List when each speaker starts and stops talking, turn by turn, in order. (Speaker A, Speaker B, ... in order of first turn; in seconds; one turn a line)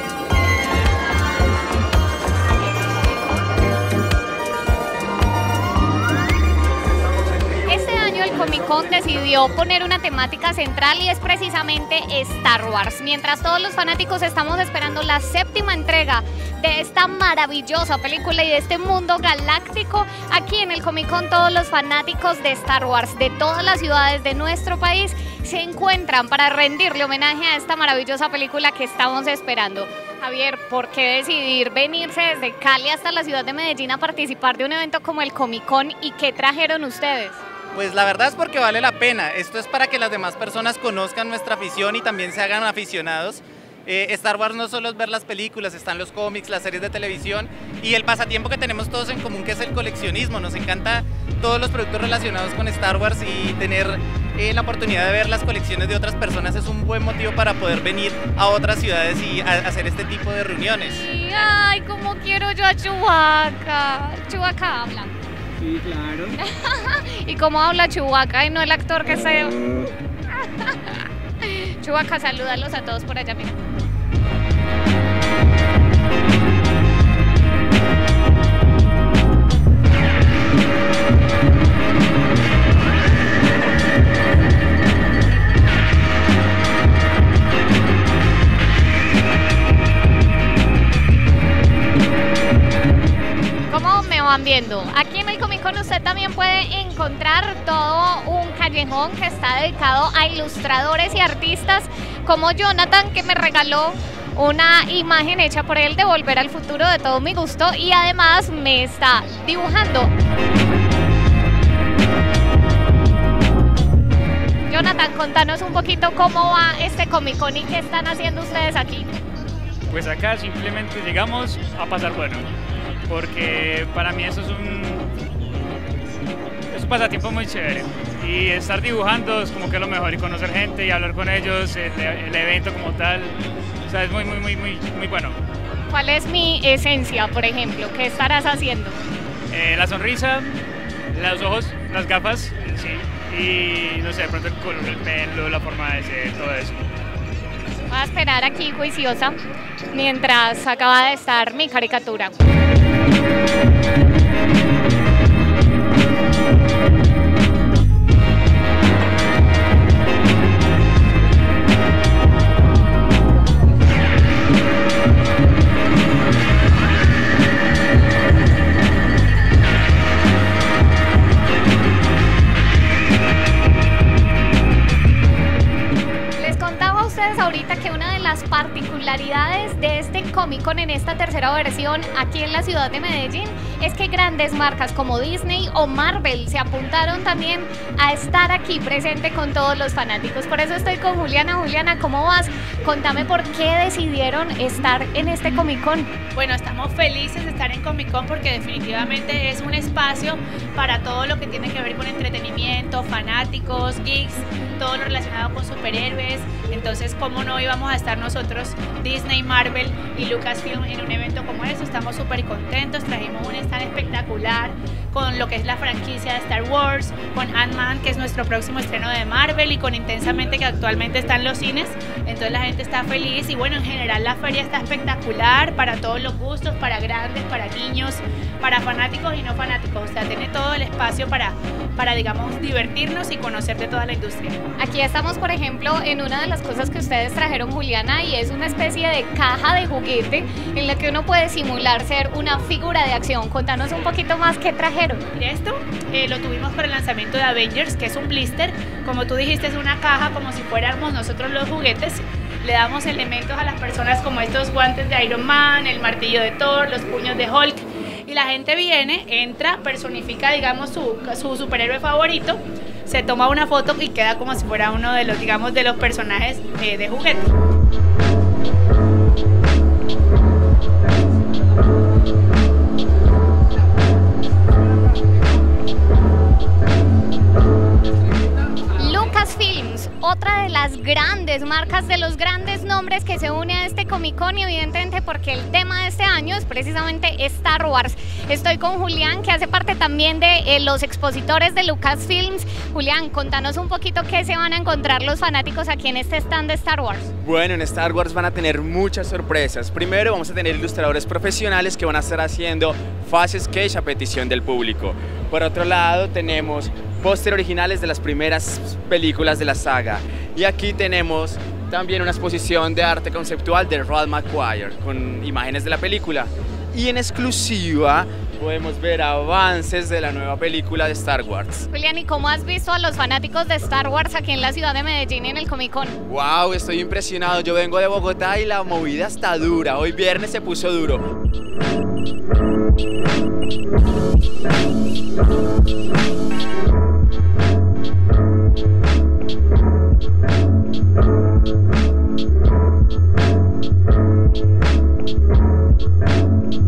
Speaker A: 7.7-37.4
Speaker B: 37.8-61.0
Speaker A: 60.7-65.1
Speaker A: 66.2-73.6
Speaker A: 93.7-110.1
Speaker A: 114.7-119.1
Speaker C: 119.9-122.5
Speaker C: 123.1-125.1
Speaker C: 126.7-135.4
Speaker A: 135.9-139.0
Speaker C: 139.5-140.5
Speaker C: 141.1-146.8
Speaker A: 147.9-149.4
Speaker A: 149.9-152.3
Speaker A: 176.4-196.1
Speaker D: 196.4-234.6
Speaker A: 234.8-245.2
Speaker D: 245.4-267.5
Speaker A: 278.9-297.3
Speaker E: 297.4-321.9
Speaker A: 321.9-326.2
Speaker E: 326.3-331.2